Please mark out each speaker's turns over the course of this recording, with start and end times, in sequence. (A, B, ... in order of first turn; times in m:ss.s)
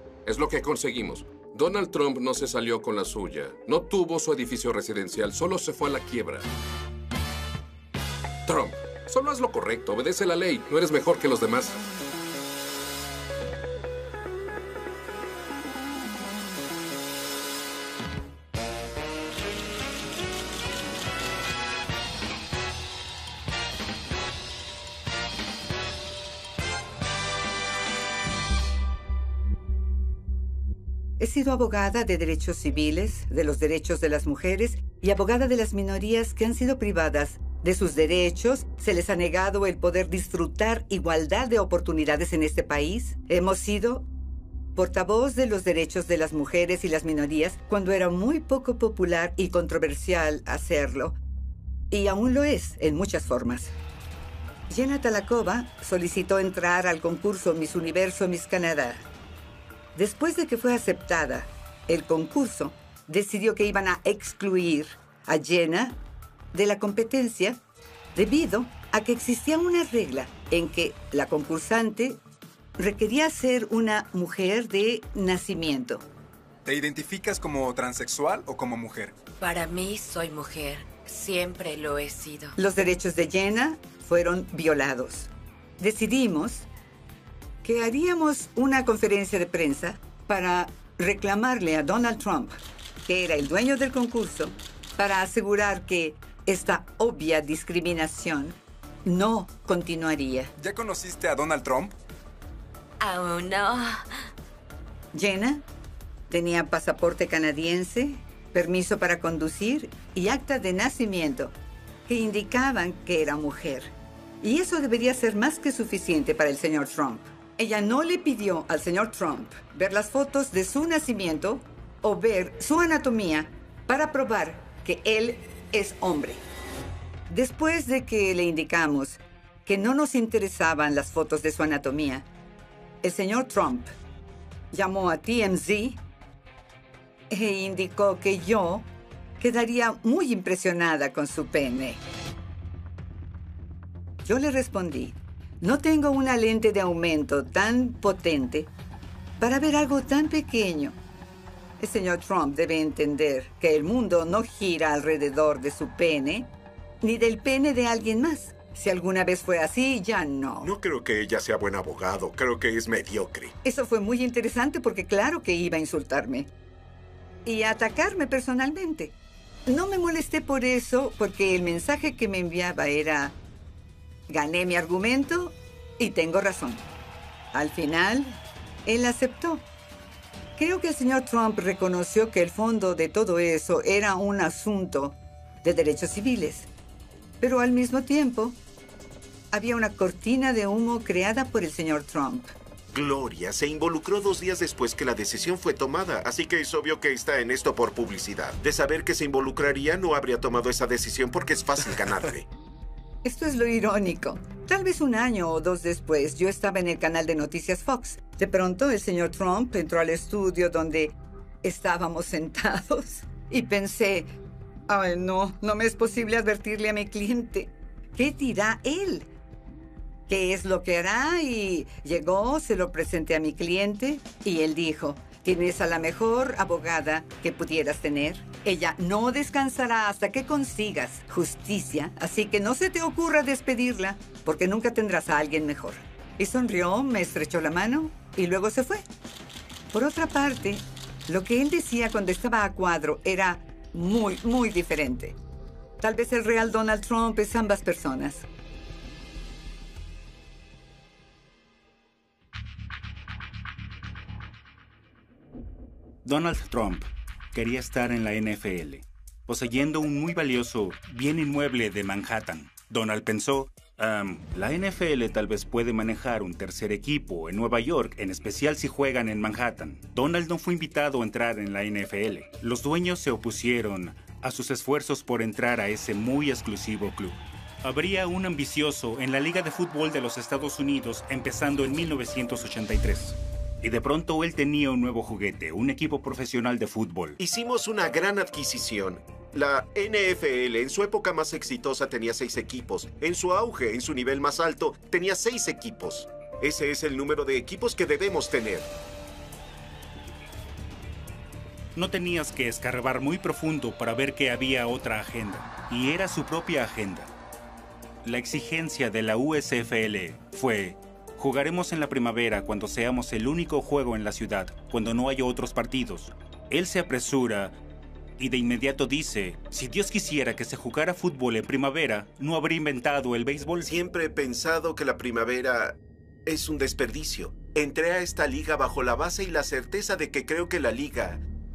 0:00.2-0:06.5 A
0:08.4-0:11.8 A
0:31.2-0:44.1 B
0:44.7-0:51.2 B
0:51.9-0:53.7 B
0:54.7-0:59.0 B
0:59.9-1:06.0 B
1:06.5-1:07.6 B
1:08.1-1:12.2 B
1:12.8-1:16.0 B
1:16.6-1:19.1 C
1:19.4-1:22.5 D
1:22.6-1:26.6 B
1:27.6-1:40.5 B
1:40.6-1:41.9 C
1:43.0-1:44.0 D
1:45.1-1:45.6 B
1:46.3-1:51.5 B
1:52.1-2:06.4 B
2:07.3-2:12.3 B
2:13.0-2:13.9 B
2:14.7-2:16.0 B
2:17.3-2:18.9 B
2:19.4-2:22.0 B
2:24.2-2:28.7 B
2:29.4-2:31.0 B
2:31.8-2:36.5 B
2:37.0-2:40.7 B
2:40.6-2:43.5 E
2:43.6-2:46.5 B
2:47.4-2:49.1 B
2:49.6-2:53.4 B
2:54.3-2:56.8 B
2:57.5-2:59.6 B
3:00.6-3:06.7 B
3:07.4-3:08.6 B
3:09.5-3:12.5 B
3:12.9-3:22.5 E
3:23.2-3:34.3 B
3:34.9-3:39.3 B
3:40.3-3:59.0 B
3:59.9-4:05.4 B
4:06.0-4:08.4 B
4:16.2-4:47.4 F
4:47.4-4:58.9 E
5:02.0-5:07.3 F
5:08.2-5:17.8 F
5:18.4-5:23.9 F
5:23.8-5:31.4 E